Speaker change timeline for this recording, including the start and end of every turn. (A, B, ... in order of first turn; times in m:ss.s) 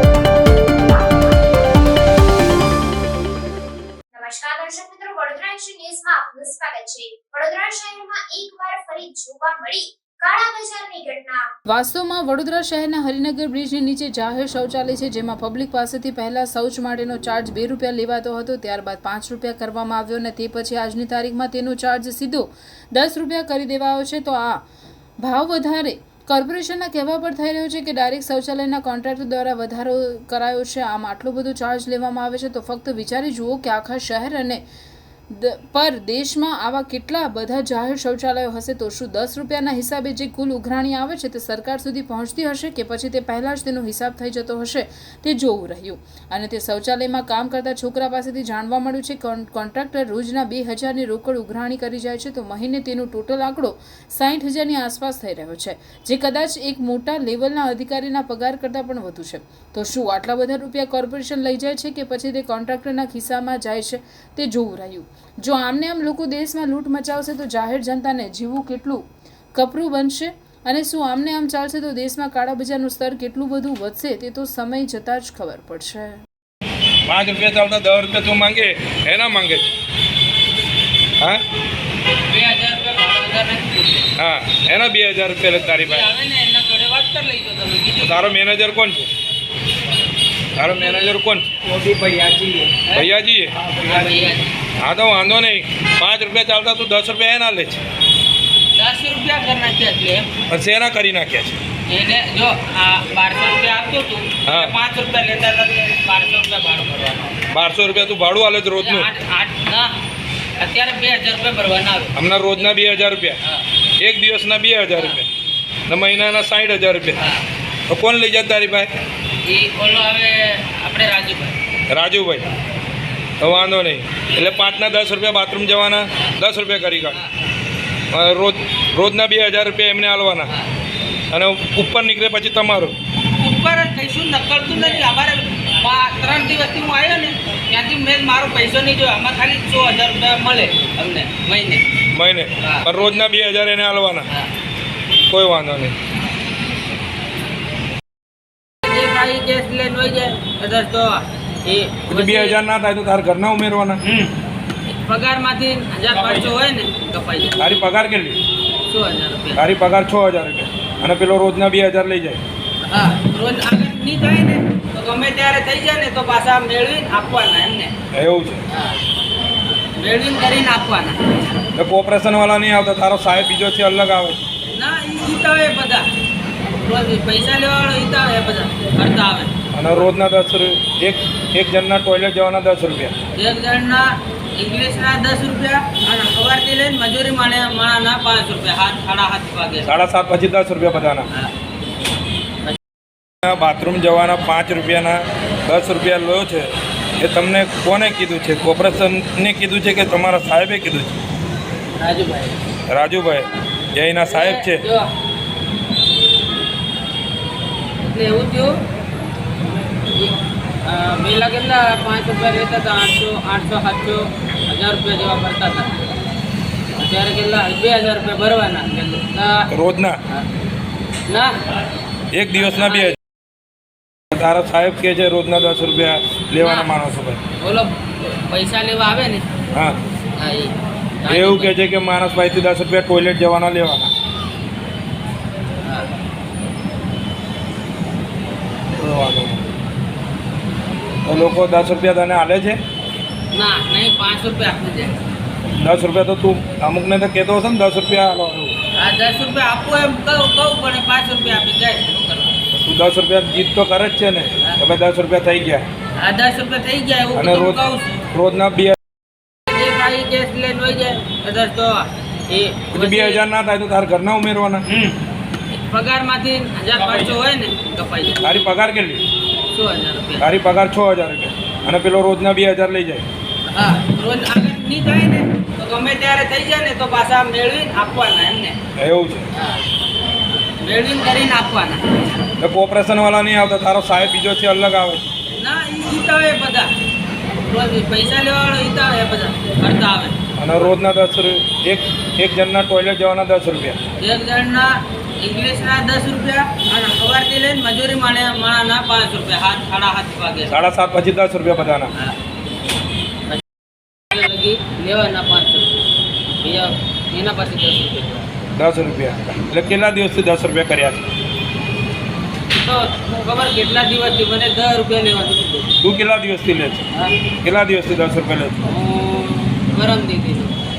0:00.8-0:01.2 A
0:04.1-0:11.5 A
0:11.7-0:24.6 B
0:25.2-0:34.6 B
0:35.3-1:16.2 B
1:17.0-1:19.7 C
1:22.3-1:24.1 D
1:24.2-1:26.1 C
1:25.8-1:28.3 D
1:28.0-1:29.1 C
1:30.6-1:31.5 C
1:30.7-1:31.1 D
1:31.8-1:33.1 D
1:32.9-1:34.0 C
1:33.7-1:34.6 D
1:34.8-1:37.8 C
1:38.8-1:40.4 D
1:40.5-1:41.6 C
1:41.9-1:47.4 D
1:44.4-1:44.7 C
1:47.5-1:49.1 C
1:48.8-1:50.0 D
1:50.6-1:53.6 D
1:52.1-1:53.4 C
1:54.0-1:55.3 C
1:54.9-1:55.2 D
1:55.9-1:57.2 C
1:57.2-1:57.4 D
1:57.9-1:58.9 C
1:59.4-2:01.6 D
2:01.9-2:02.5 C
2:03.4-2:07.2 C
2:08.1-2:10.5 C
2:11.3-2:12.9 C
2:13.3-2:21.8 D
2:22.1-2:24.3 C
2:22.6-2:22.9 D
2:25.3-2:25.9 C
2:28.8-2:32.6 D
2:32.1-2:34.0 C
2:34.0-2:34.3 D
2:34.9-2:37.6 D
2:37.6-2:38.4 C
2:38.9-2:39.6 D
2:39.6-2:42.4 C
2:42.8-2:47.9 D
2:48.1-2:48.6 C
2:48.7-2:49.0 D
2:50.0-2:51.2 D
2:51.8-2:54.4 C
2:54.7-2:56.1 D
2:56.8-2:59.5 D
2:59.7-3:03.1 C
3:03.3-3:10.0 D
3:09.8-3:11.3 C
3:13.4-3:21.2 C
3:22.0-3:22.6 D
3:22.9-3:24.8 C
3:24.2-3:25.1 D
3:28.0-3:28.8 D
3:30.1-3:36.0 D
3:37.0-3:39.7 D
3:39.7-3:40.2 C
3:41.3-3:41.5 D
3:42.3-3:43.2 C
3:42.6-3:43.2 D
3:44.3-3:47.4 C
3:46.6-3:46.9 D
3:47.6-3:49.5 D
3:49.7-3:50.0 C
3:50.4-3:51.7 D
3:51.3-3:54.1 C
3:55.8-3:56.1 D
3:59.0-3:59.7 C
4:01.2-4:02.8 C
4:03.5-4:05.2 D
4:05.8-4:08.7 C
4:08.9-4:12.6 D
4:12.7-4:15.9 C
4:16.2-4:18.2 D
4:17.3-4:19.0 C
4:19.7-4:23.4 D
4:22.9-4:24.8 C
4:24.9-4:25.2 D
4:25.7-4:28.4 D
4:28.4-4:29.2 C
4:29.7-4:30.4 D
4:30.4-4:33.2 C
4:33.7-4:38.8 D
4:39.0-4:39.4 C
4:39.5-4:39.8 D
4:40.8-4:42.0 D
4:42.6-4:45.2 C
4:45.5-4:46.9 D
4:47.6-4:50.4 D
4:50.6-4:54.0 C
4:54.2-5:00.8 D
5:00.7-5:02.1 C
5:04.3-5:06.0 D
5:06.6-5:08.5 D
5:08.8-5:11.3 C
5:12.7-5:15.9 D
5:16.0-5:17.1 C
5:17.6-5:18.8 C
5:18.8-5:20.8 D